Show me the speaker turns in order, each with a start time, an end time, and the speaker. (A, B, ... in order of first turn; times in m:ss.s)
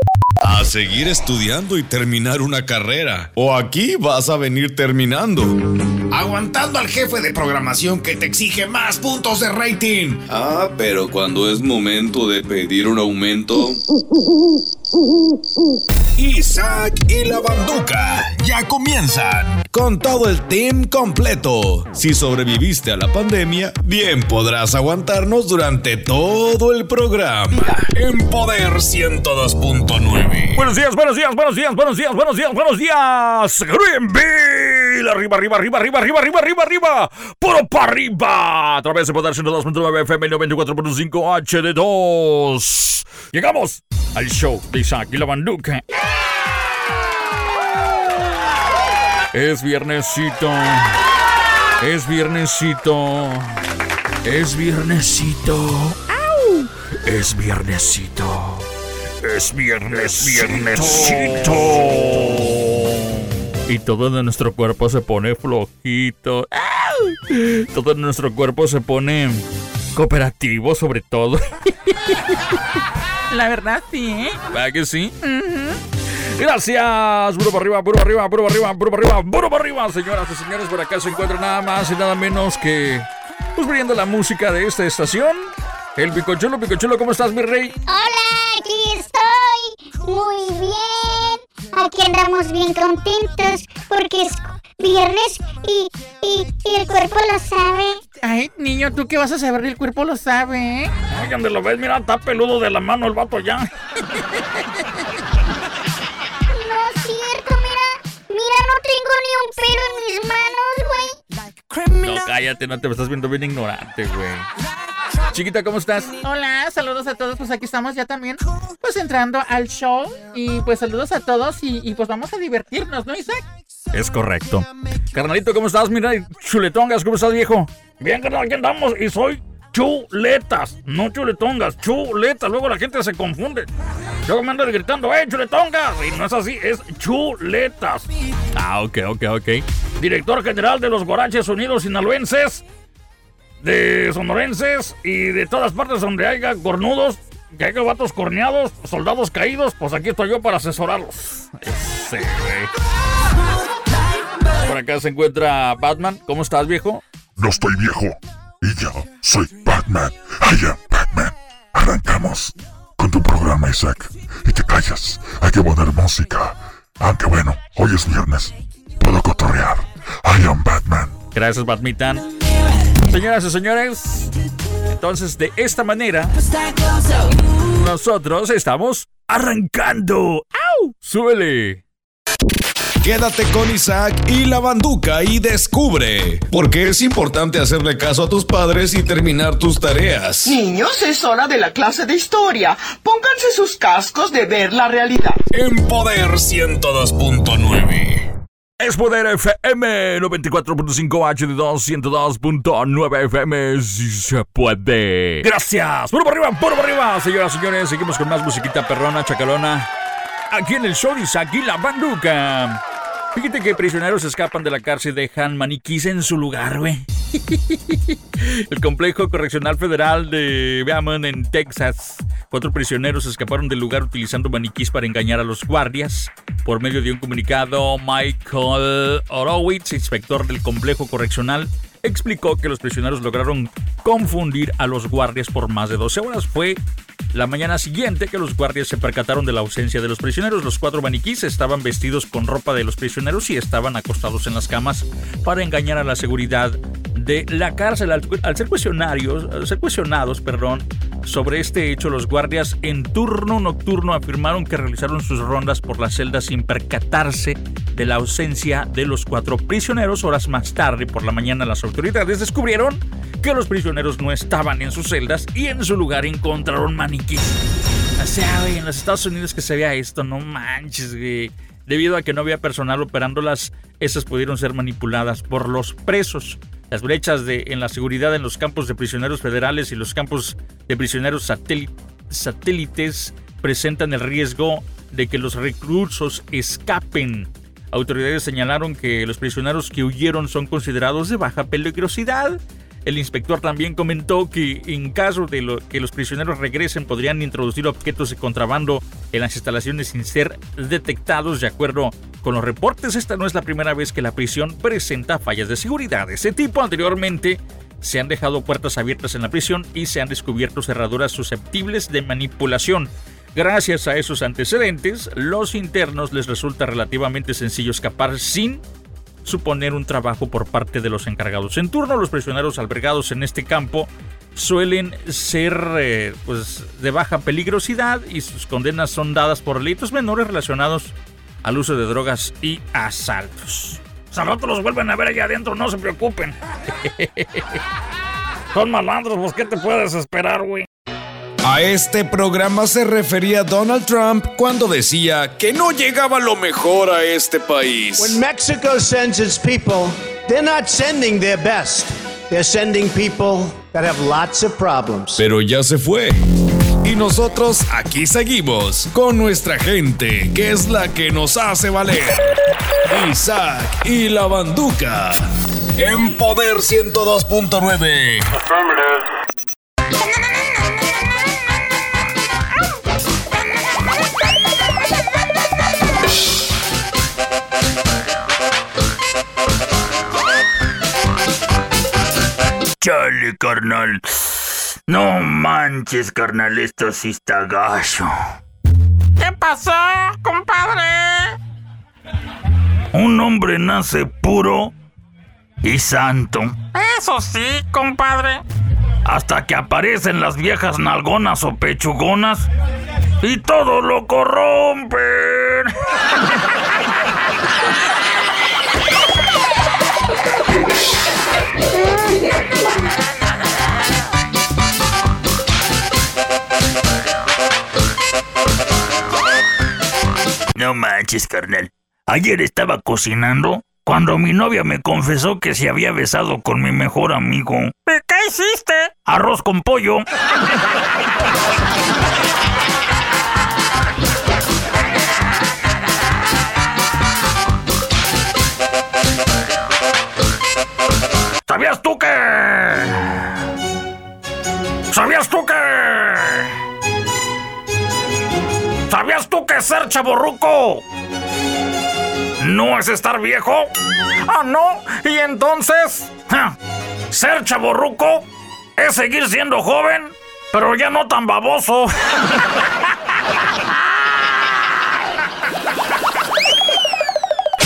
0:00.4-0:05.6 A
0:06.1-0:13.8 A
0:16.2-0:30.6 A
0:30.6-0:45.8 B
0:49.3-0:51.0 B
0:51.8-0:53.6 B
0:54.2-0:56.1 B
0:57.0-0:58.7 B
0:59.2-1:12.4 B
1:00.7-1:01.4 A
1:13.3-1:14.4 C
1:14.5-1:15.3 B
1:15.2-1:15.8 C
1:16.2-1:27.8 B
1:27.9-1:38.0 D
1:38.2-1:41.0 C
1:41.1-1:43.7 B
1:46.5-1:51.2 D
1:52.0-1:54.5 B
1:55.3-1:56.2 B
1:56.2-2:03.4 C
2:03.9-2:13.7 B
2:14.3-2:22.6 B
2:23.6-2:32.7 B
2:34.6-2:37.0 B
2:37.4-2:51.2 E
2:51.3-2:52.3 B
2:53.0-2:54.3 B
2:54.9-2:56.4 B
2:57.7-3:01.8 B
3:03.0-3:10.5 A
3:10.4-3:15.4 F
3:15.5-3:18.3 A
3:18.8-3:29.9 B
3:30.5-3:32.8 B
3:33.4-3:56.8 B
3:57.3-4:27.6 B
4:28.2-5:18.8 B
5:19.4-5:37.8 B
5:38.7-5:40.9 B
5:41.6-5:48.4 A
5:48.2-5:55.4 G
5:55.4-5:56.4 A
5:57.0-6:02.5 A
6:03.1-6:05.4 A
6:06.0-6:08.5 A
6:23.0-6:28.3 B
6:29.4-6:31.6 C
6:33.1-6:34.9 B
6:35.8-6:36.8 B
6:36.9-6:38.6 C
6:39.2-6:42.7 B
6:43.4-6:45.9 B
7:00.8-7:10.2 B
7:21.7-7:23.4 B
7:25.1-7:26.7 B
7:29.1-7:31.0 B
7:32.6-7:33.9 B
7:34.5-7:36.7 B
7:37.3-7:38.4 B
7:39.0-7:42.1 B